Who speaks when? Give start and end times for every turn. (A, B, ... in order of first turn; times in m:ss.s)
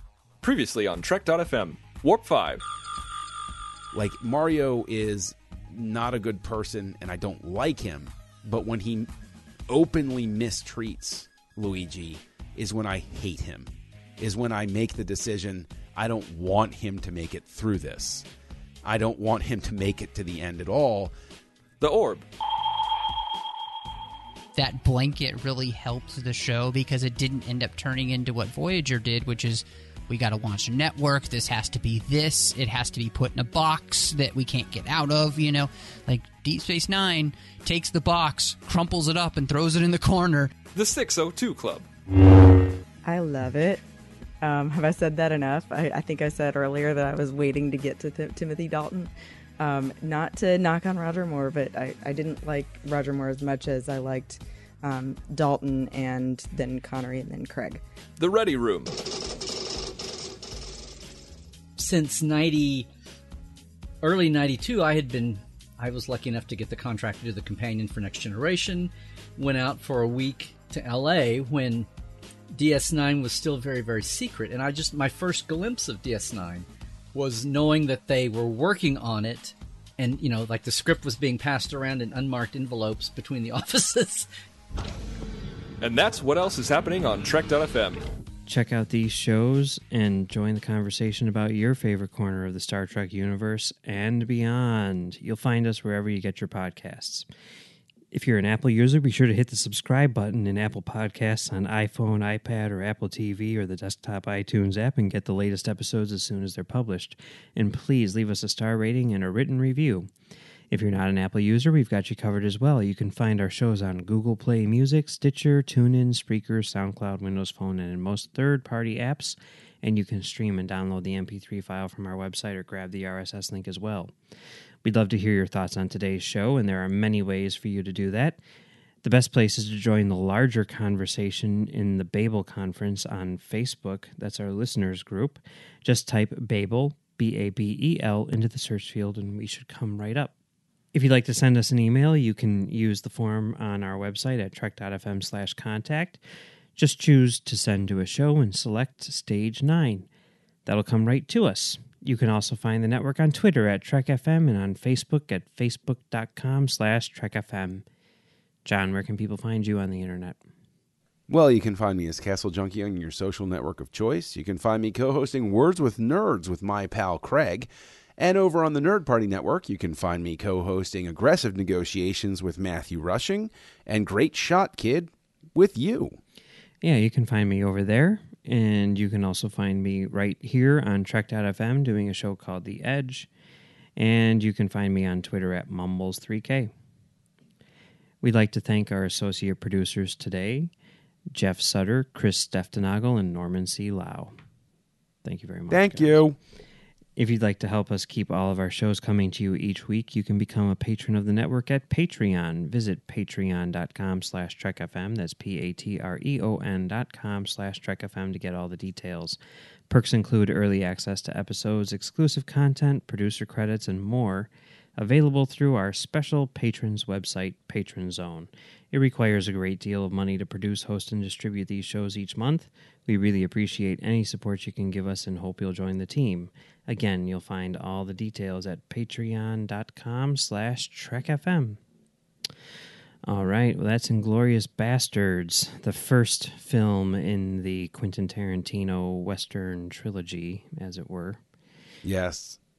0:00.4-0:02.6 A
0:03.9-0:09.1 B
0:09.7-0:18.3 B
0:18.8-0:21.1 B
0:21.8-0:22.2 A
0:24.5-0:40.5 C
0:40.7-0:41.8 A
0:43.0-0:43.8 D
0:44.4-0:57.8 D
0:58.2-0:58.9 A
1:01.8-1:02.9 E
1:04.0-1:11.9 E
1:12.5-1:24.3 E
1:25.8-1:28.0 A
1:28.5-1:37.3 F
1:38.1-1:50.1 F
1:50.7-2:04.1 F
2:04.8-2:08.4 F
2:09.0-2:20.3 F
2:20.9-2:26.2 F
2:26.8-2:30.1 F
2:30.6-2:37.8 F
2:38.6-2:40.4 F
2:41.3-2:56.2 B
2:56.8-3:03.3 F
3:04.0-3:06.7 F
3:08.2-3:10.7 F
3:11.3-3:14.4 F
3:15.2-3:16.2 F
3:15.7-3:16.4 B
3:17.2-3:29.4 F
3:29.9-3:51.8 F
3:53.3-4:01.4 F
4:02.0-4:02.6 B